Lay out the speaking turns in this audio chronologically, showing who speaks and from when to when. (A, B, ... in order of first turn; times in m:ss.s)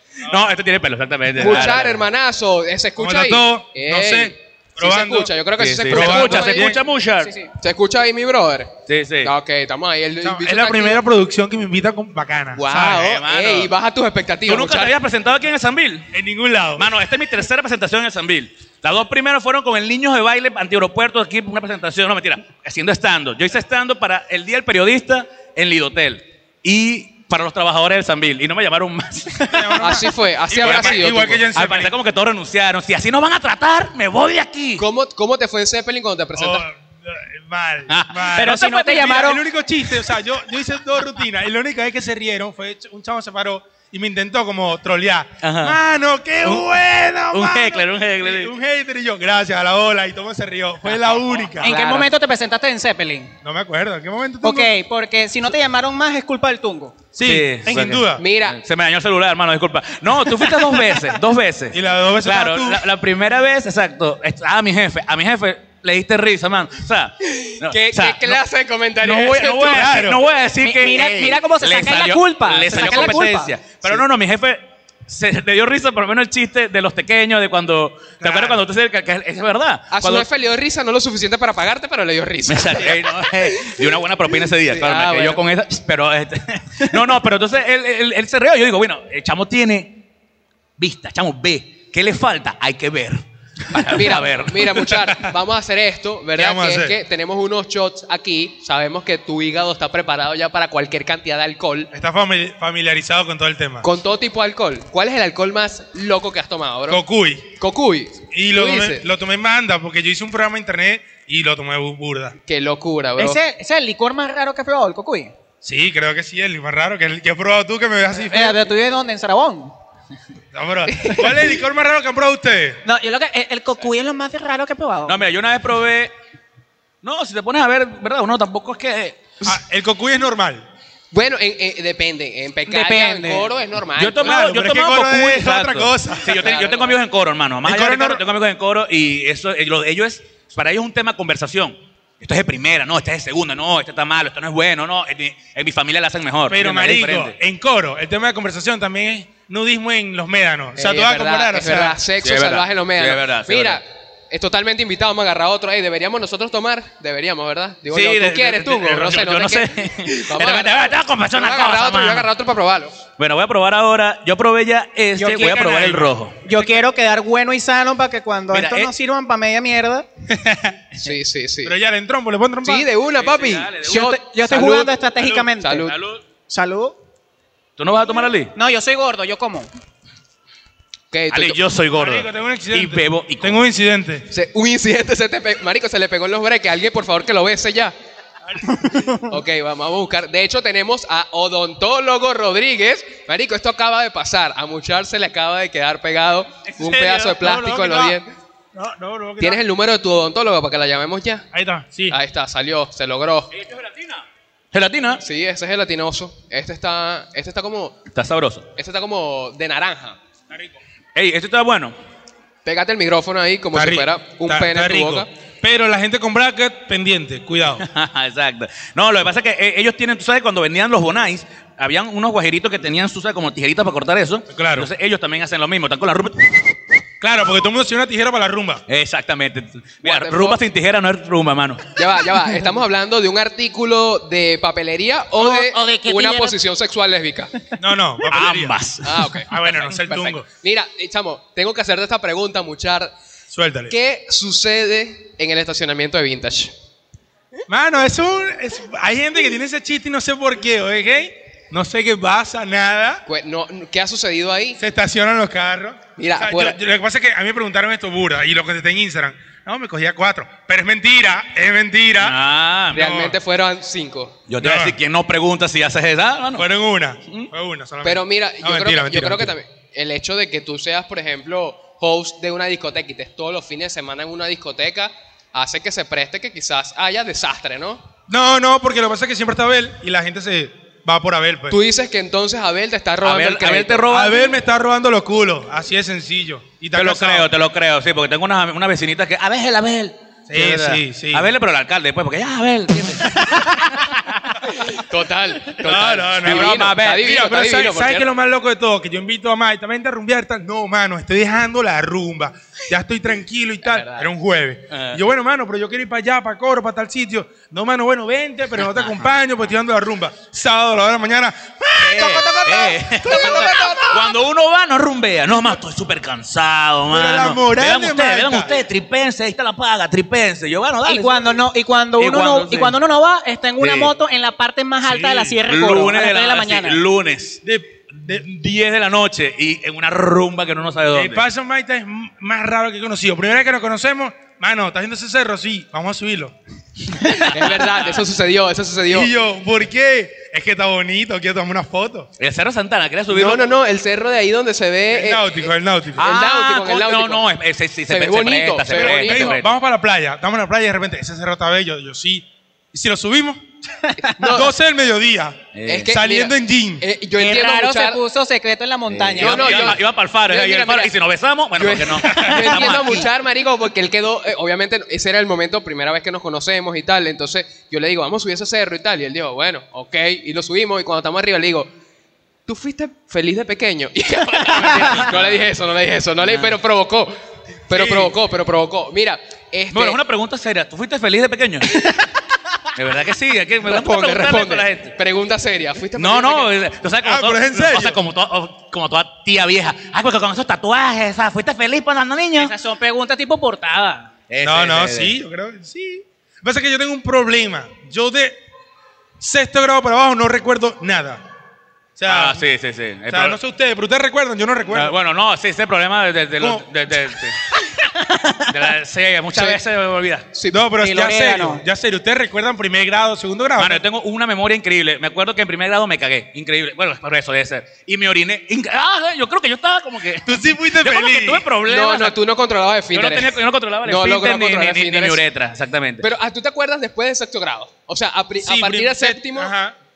0:00.2-0:02.0 A
0:01.4-0:06.7 B
0:03.0-0:05.3 C
0:05.6-0:07.3 A
0:05.9-0:06.8 C
0:07.2-0:07.5 D
0:07.6-0:11.0 B
0:08.9-0:09.3 A
0:10.2-0:13.1 C
0:12.5-0:15.0 B
0:12.8-0:13.7 A
0:14.4-0:16.1 A
0:16.1-0:16.9 C
0:16.7-0:29.6 A
0:29.5-0:31.9 C
0:29.8-0:31.5 B
0:30.6-0:34.8 A
0:34.8-0:36.6 B
0:36.4-0:51.7 C
0:37.9-0:38.4 A
0:38.3-0:39.4 D
0:45.4-0:45.8 A
0:46.4-0:46.8 A
0:47.3-0:48.5 A
0:50.8-0:51.8 A
0:51.6-0:53.3 D
0:51.7-0:52.0 B
0:53.4-0:54.7 C
0:54.4-0:57.0 D
0:57.1-0:58.2 C
0:57.2-1:08.4 A
0:58.2-0:58.6 B
1:01.7-1:02.8 C
1:07.2-1:10.0 B
1:09.0-1:20.3 A
1:09.4-1:10.2 C
1:10.6-1:13.5 D
1:18.2-1:18.6 C
1:19.9-1:23.8 B
1:22.5-1:30.0 A
1:24.4-1:25.4 B
1:30.8-1:35.1 A
1:33.7-1:41.9 B
1:36.3-1:37.0 C
1:41.9-1:43.9 C
1:43.8-1:47.0 B
1:46.9-1:47.5 C
1:47.5-1:49.0 B
1:48.3-1:52.4 C
1:52.4-1:53.4 B
1:53.2-1:55.3 D
1:55.6-1:58.6 C
1:58.1-1:59.7 D
2:00.5-2:02.8 C
2:00.9-2:01.3 B
2:02.8-2:05.2 D
2:05.0-2:06.1 A
2:07.0-2:09.2 A
2:09.4-2:10.6 C
2:11.1-2:14.4 B
2:12.7-2:13.5 D
2:14.0-2:27.4 A
2:14.2-2:16.4 C
2:16.3-2:16.9 B
2:17.6-2:18.2 C
2:26.5-2:32.0 C
2:30.8-2:43.0 B
2:32.2-2:33.8 A
2:37.9-2:42.3 A
2:43.2-2:46.5 A
2:45.2-2:45.7 D
2:45.4-2:46.1 C
2:46.4-2:50.0 D
2:48.5-2:48.9 A
2:50.3-2:50.7 C
2:51.0-2:51.7 B
2:51.6-2:52.9 C
2:52.6-2:54.9 B
2:53.2-2:54.1 A
2:53.8-2:55.9 D
2:55.6-2:56.0 B
2:55.8-2:56.2 A
2:56.4-2:57.0 D
2:57.8-2:58.5 A
2:58.5-2:59.7 D
3:01.1-3:01.6 B
3:01.3-3:03.6 A
3:01.9-3:04.2 C
3:04.3-3:07.9 B
3:08.5-3:09.1 C
3:09.2-3:18.3 B
3:16.8-3:18.2 C
3:18.7-3:19.6 C
3:19.4-3:21.5 B
3:21.5-3:22.2 C
3:22.1-3:23.5 B
3:23.5-3:25.2 A
3:25.2-3:28.0 B
3:28.1-3:28.6 A
3:28.8-3:30.2 B
3:31.1-3:31.9 A
3:32.6-3:35.3 B
3:33.7-3:37.8 C
3:37.8-3:46.8 A
3:44.5-3:44.9 C
3:47.2-3:48.8 C
3:48.9-3:51.8 A
3:50.0-3:50.6 B
3:52.0-3:57.5 B
3:55.4-3:56.6 D
3:57.8-3:58.7 C
3:58.3-3:59.6 A
3:59.0-4:03.1 B
3:59.5-4:00.4 C
4:03.5-4:03.9 C
4:03.9-4:06.7 B
4:07.7-4:13.2 C
4:13.2-4:14.8 B
4:14.8-4:22.4 C
4:16.2-4:16.8 B
4:22.2-4:23.1 A
4:22.9-4:23.4 C
4:22.9-4:24.4 B
4:24.5-4:26.7 A
4:24.6-4:25.0 C
4:26.6-4:29.5 C
4:28.0-4:38.0 B
4:38.3-4:41.8 C
4:41.7-4:44.1 B
4:43.2-4:44.6 A
4:44.0-4:47.5 C
4:46.9-4:54.6 A
4:50.5-4:51.5 C
4:54.7-4:58.3 B
4:55.8-5:14.2 C
4:56.4-4:57.5 A
5:03.8-5:04.3 B
5:04.9-5:05.2 A
5:08.7-5:09.3 A
5:12.0-5:21.6 A
5:13.4-5:14.0 B
5:17.1-5:18.7 C
5:21.0-5:27.0 D
5:22.2-5:23.0 A
5:23.8-5:24.1 A
5:25.0-5:25.6 C
5:25.6-5:27.6 A
5:27.6-5:28.4 C
5:28.2-5:31.4 A
5:31.1-5:36.5 C
5:37.4-5:39.3 B
5:37.5-5:38.2 A
5:39.1-5:42.3 C
5:42.4-5:43.6 A
5:43.3-5:47.5 B
5:45.1-5:46.3 C
5:46.2-5:49.7 A
5:48.1-5:49.6 B
5:48.9-5:53.6 C
5:54.2-5:54.8 B
5:54.4-5:57.0 C
5:55.7-5:56.1 A
5:55.8-5:58.2 B
5:57.4-5:59.9 D
5:59.1-6:03.3 A
5:59.4-6:01.1 B
6:01.7-6:11.9 B
6:12.7-6:17.3 B
6:14.5-6:15.6 A
6:16.4-6:16.7 A
6:17.9-6:20.2 B
6:18.0-6:18.2 C
6:19.9-6:22.0 A
6:22.9-6:25.1 A
6:23.8-6:26.8 B
6:26.2-6:32.7 A
6:27.2-6:28.2 C
6:32.6-6:34.3 D
6:34.5-6:35.4 A
6:34.6-6:38.6 C
6:39.4-6:41.4 C
6:42.2-6:42.6 C
6:42.2-6:43.6 A
6:43.3-6:45.1 C
6:44.9-6:47.7 A
6:46.6-6:46.8 C
6:48.3-6:48.6 D
6:48.6-6:50.5 A
6:50.5-6:50.8 B
6:50.7-6:54.0 C
6:51.0-6:51.8 D
6:53.8-7:02.4 A
7:00.4-7:01.6 C
7:01.8-7:05.4 B
7:03.1-7:06.2 A
7:06.2-7:09.7 B
7:08.6-7:10.0 C